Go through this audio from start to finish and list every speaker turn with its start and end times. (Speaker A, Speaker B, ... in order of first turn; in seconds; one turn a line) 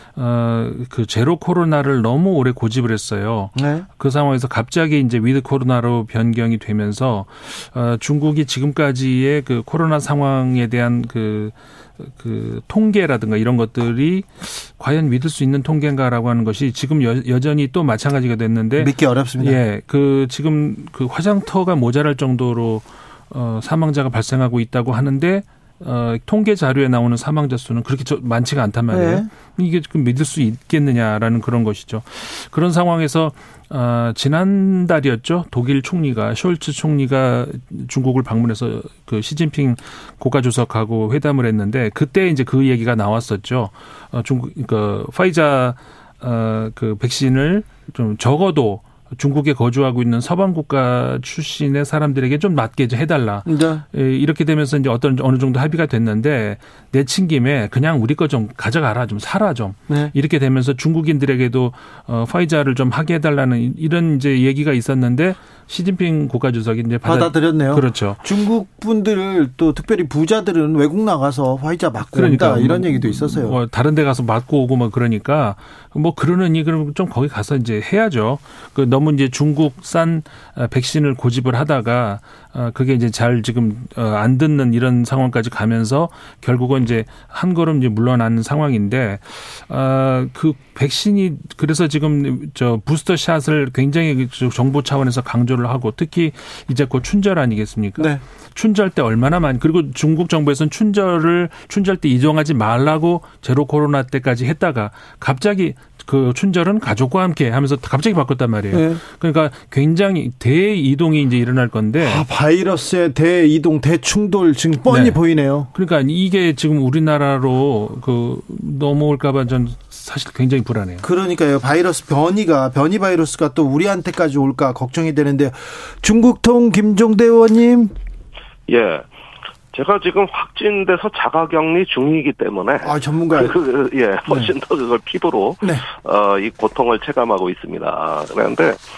Speaker A: 0.1-68.2
Speaker B: 3.5-3.9
Speaker B: 18.8-19.6
Speaker B: 28.9-29.3
Speaker B: 53.5-53.8
Speaker B: 67.0-73.6
Speaker A: 72.1-112.2
Speaker B: 108.7-109.0
Speaker B: 112.0-115.7
Speaker A: 114.9-115.2
Speaker A: 115.7-121.0
Speaker B: 121.0-127.9
Speaker C: 128.7-129.1
Speaker C: 129.7-138.8
Speaker B: 132.8-133.6
Speaker B: 134.3-134.5